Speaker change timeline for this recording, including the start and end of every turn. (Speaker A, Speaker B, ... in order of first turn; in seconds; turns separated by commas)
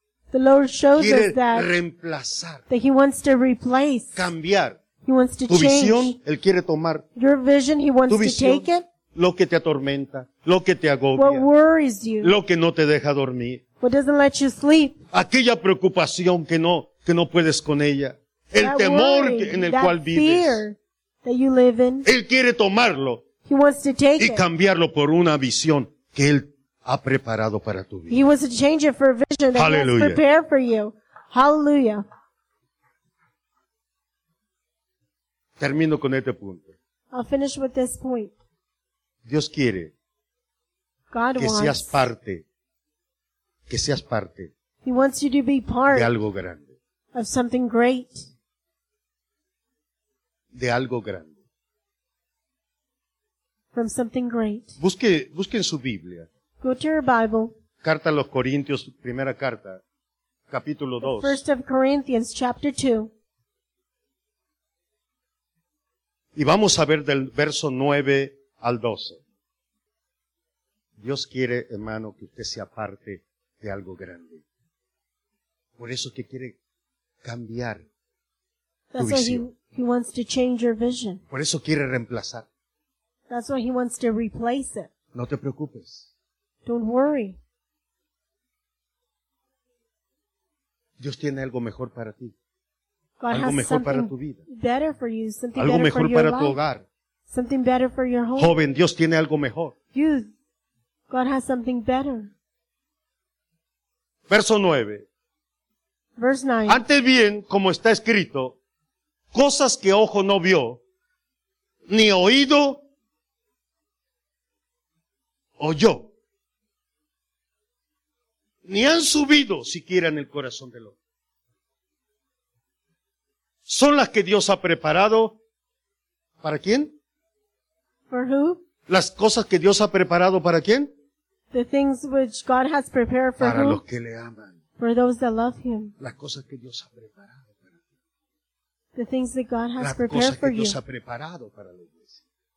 Speaker A: 0.3-1.7, Speaker B: 0.9-2.6, Speaker A: 2.7-4.2, Speaker B: 4.2-4.8, Speaker A: 5.0-6.2, Speaker B: 5.5-7.1, Speaker A: 7.2-8.9, Speaker B: 8.1-11.5, Speaker A: 11.2-12.3, Speaker B: 12.2-13.6, Speaker A: 13.8-15.0, Speaker B: 15.1-20.6, Speaker A: 18.6-22.1, Speaker B: 22.0-23.2, Speaker A: 23.4-24.4, Speaker B: 24.2-28.2, Speaker A: 28.1-32.0, Speaker B: 29.6-30.2, Speaker B: 35.6-36.7, Speaker A: 37.1-38.4, Speaker B: 39.3-39.9, Speaker A: 41.1-42.0, Speaker B: 41.4-42.5, Speaker B: 43.7-44.5, Speaker A: 44.8-46.1, Speaker B: 45.9-46.7, Speaker A: 47.1-48.3, Speaker B: 50.5-51.3, Speaker A: 53.7-54.7, Speaker B: 54.8-56.3, Speaker A: 56.6-57.5, Speaker B: 57.8-59.8, Speaker B: 60.5-61.4, Speaker A: 61.0-63.1, Speaker B: 66.4-69.2, Speaker B: 71.0-74.4, Speaker B: 75.8-76.6, Speaker B: 77.2-77.8, Speaker A: 78.9-81.2, Speaker B: 79.0-79.4, Speaker B: 81.3-82.5, Speaker A: 83.3-84.9, Speaker B: 85.1-86.1, Speaker A: 86.7-87.4, Speaker B: 91.0-92.3, Speaker A: 93.2-96.6, Speaker B: 93.3-94.4, Speaker B: 95.6-96.8, Speaker A: 97.3-98.5, Speaker B: 98.4-99.8, Speaker A: 99.9-100.3, Speaker A: 101.1-102.3, Speaker B: 104.3-105.1, Speaker A: 106.2-106.8, Speaker B: 106.7-108.6, Speaker B: 109.3-110.8, Speaker B: 111.9-112.8, Speaker B: 115.6-116.1, Speaker B: 118.7-121.0, Speaker B: 123.7-125.4, Speaker B: 126.4-126.9, Speaker A: 128.1-128.6, Speaker B: 128.9-130.9, Speaker A: 131.5-133.8, Speaker B: 133.4-134.6, Speaker A: 134.8-135.9, Speaker B: 136.0-137.7, Speaker A: 138.9-140.8, Speaker B: 139.8-142.2